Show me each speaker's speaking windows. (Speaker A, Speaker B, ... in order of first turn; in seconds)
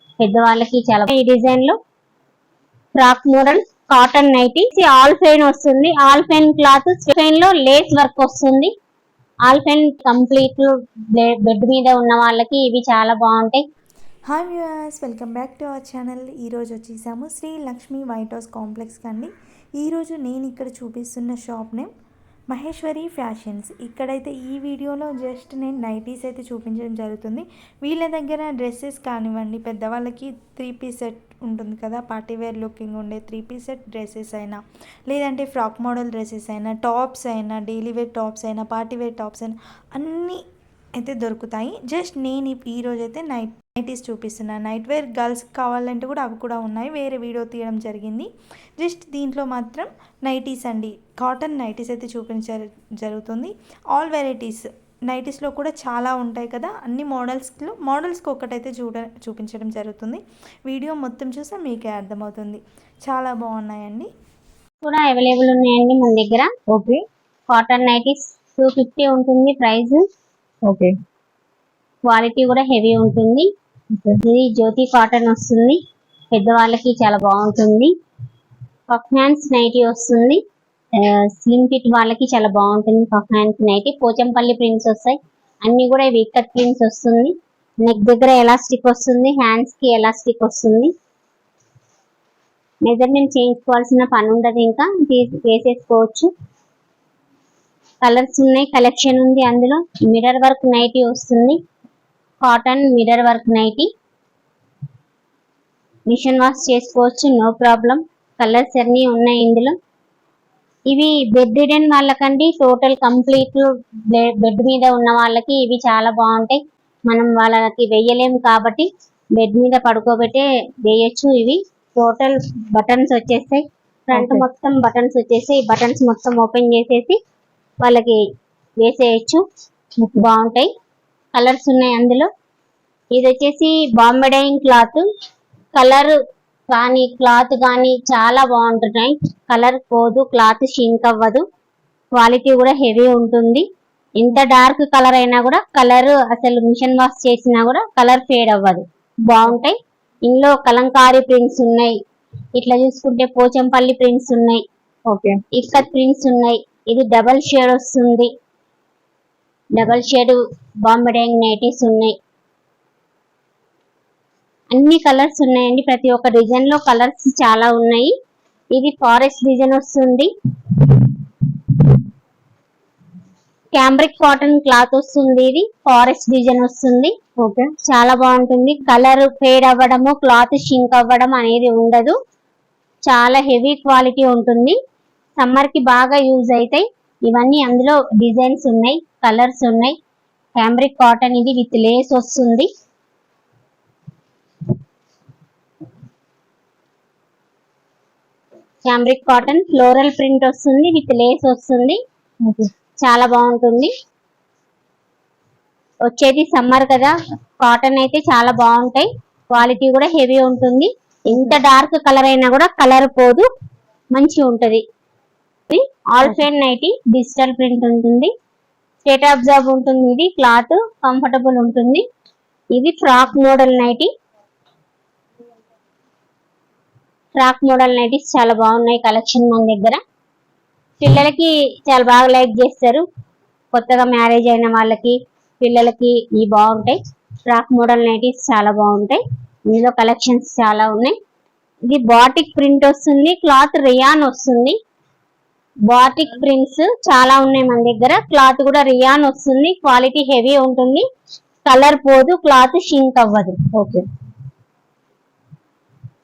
Speaker A: 0.2-1.8, 3.0-8.7, 9.5-13.6, 64.8-66.5, 67.5-70.0, 72.1-73.5, 74.2-75.8, 76.3-77.9, 78.9-80.4, 80.9-90.9, 92.9-96.3, 98.0-101.6, 102.4-103.9, 106.1-109.8, 110.9-127.2, 127.8-128.2, 128.8-129.4, 130.2-130.7, 131.3-132.3, 133.2-135.0, 135.8-136.2, 136.7-141.4, 142.2-143.7, 144.2-152.0, 152.6-154.6, 155.5-158.3, 159.8-162.2, 164.7-168.1, 168.7-171.1, 173.8-177.2, 177.8-182.2, 183.1-184.8, 185.4-190.0, 190.6-192.7, 198.8-202.0, 203.0-203.9, 206.1-213.5, 214.2-214.8, 215.7-218.3, 219.0-222.0, 222.7-224.1, 227.3-230.0, 231.0-233.0, 233.7-241.2, 241.9-244.8, 245.9-251.1, 251.7-253.6
Speaker B: 14.3-21.9, 22.5-40.4, 41.0-64.1
Speaker C: 66.7-67.0, 70.6-70.9, 73.9-74.2, 124.1-124.4, 130.0-130.2, 155.1-155.4, 177.4-177.7, 202.4-202.7, 253.7-254.0